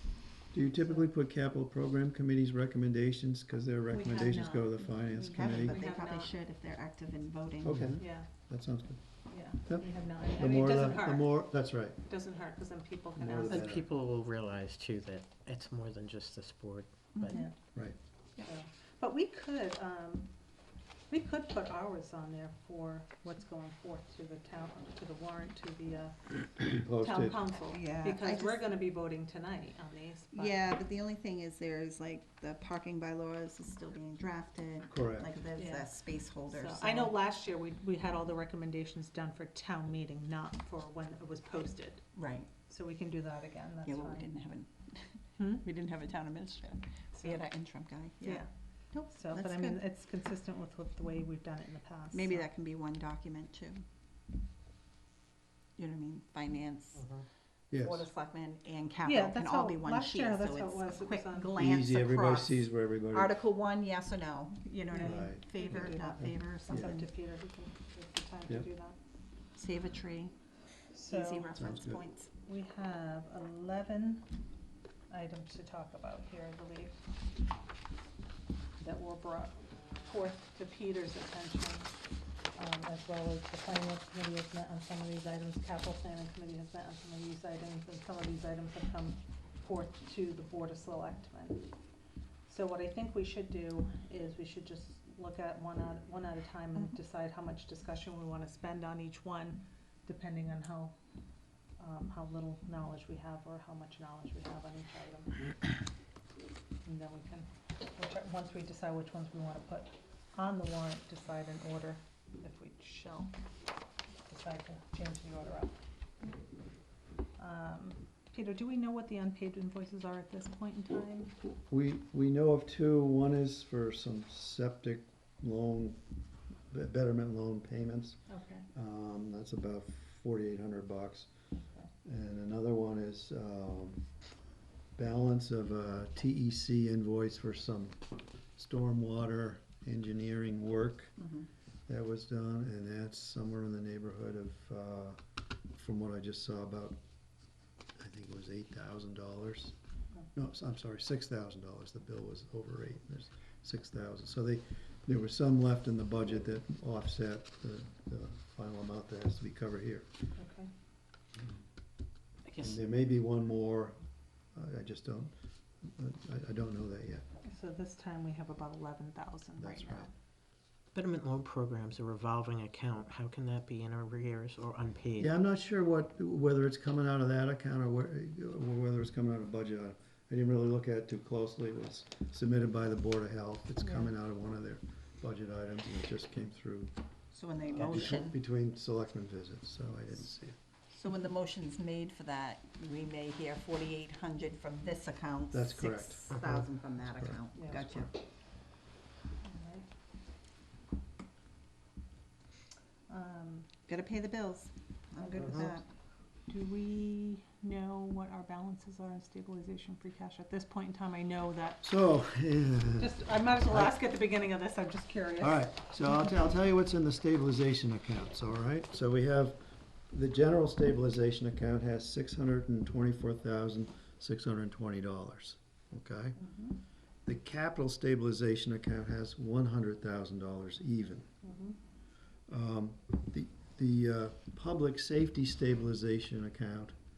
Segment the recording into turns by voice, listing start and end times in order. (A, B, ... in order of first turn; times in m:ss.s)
0:00.5-0:05.8 A
0:03.9-0:04.8 B
0:04.9-0:07.9 C
0:05.4-0:06.3 B
0:07.6-0:09.0 A
0:08.0-0:08.3 B
0:09.3-0:11.5 B
0:09.6-0:12.0 A
0:12.0-0:13.7 B
0:13.2-0:13.9 A
0:13.4-0:17.4 D
0:17.1-0:17.4 C
0:18.4-0:20.3 B
0:21.1-0:30.6 B
0:26.6-0:27.4 A
0:27.7-0:28.6 C
0:30.3-0:37.2 C
0:34.9-0:35.3 A
0:35.6-0:35.9 B
0:36.4-0:42.1 B
0:42.2-0:42.5 C
0:42.7-0:44.3 B
0:43.8-0:49.8 C
0:45.4-0:45.6 B
0:48.2-0:48.5 B
0:49.1-0:52.5 B
0:52.1-0:53.8 C
0:55.8-0:57.1 C
0:57.7-0:58.1 A
0:57.8-1:07.1 C
0:59.0-1:01.5 B
1:01.6-1:03.4 A
1:04.9-1:09.0 B
1:05.0-1:07.0 A
1:09.6-1:10.3 C
1:10.9-1:11.5 B
1:11.1-1:12.3 C
1:11.6-1:12.0 A
1:12.4-1:14.3 B
1:15.1-1:17.0 B
1:18.8-1:22.0 B
1:22.6-1:31.7 B
1:32.5-1:40.9 B
1:41.8-1:45.7 B
1:46.8-1:53.3 B
1:54.2-1:55.8 B
1:57.4-2:01.3 B
2:01.4-2:06.0 A
2:06.7-2:08.2 A
2:08.3-2:08.7 B
2:08.7-2:11.3 A
2:12.0-2:14.0 A
2:15.0-2:18.0 A
2:18.6-2:21.2 A
2:21.9-2:25.2 A
2:25.7-2:27.0 A
2:28.0-2:29.8 A
2:30.3-2:40.1 A
2:40.3-2:40.7 B
2:42.5-2:42.8 D
2:42.6-2:44.0 A
2:44.5-2:45.3 A
2:45.8-2:47.2 A
2:47.4-2:50.1 B
2:49.6-2:50.1 A
2:50.9-2:55.3 D
2:55.2-3:06.9 A
3:03.8-3:04.1 B
3:07.3-3:08.4 C
3:07.7-3:10.6 A
3:10.9-3:18.1 C
3:15.5-3:16.2 A
3:17.2-3:18.1 A
3:17.6-3:17.8 B
3:19.4-3:19.9 B
3:23.1-3:23.7 B
3:23.9-3:25.8 C
3:26.5-3:31.8 B
3:31.8-3:33.9 A
3:33.0-3:35.6 B
3:35.4-3:39.6 A
3:40.1-3:46.4 A
3:47.3-3:51.3 A
3:51.4-3:51.8 B
3:52.5-3:57.0 A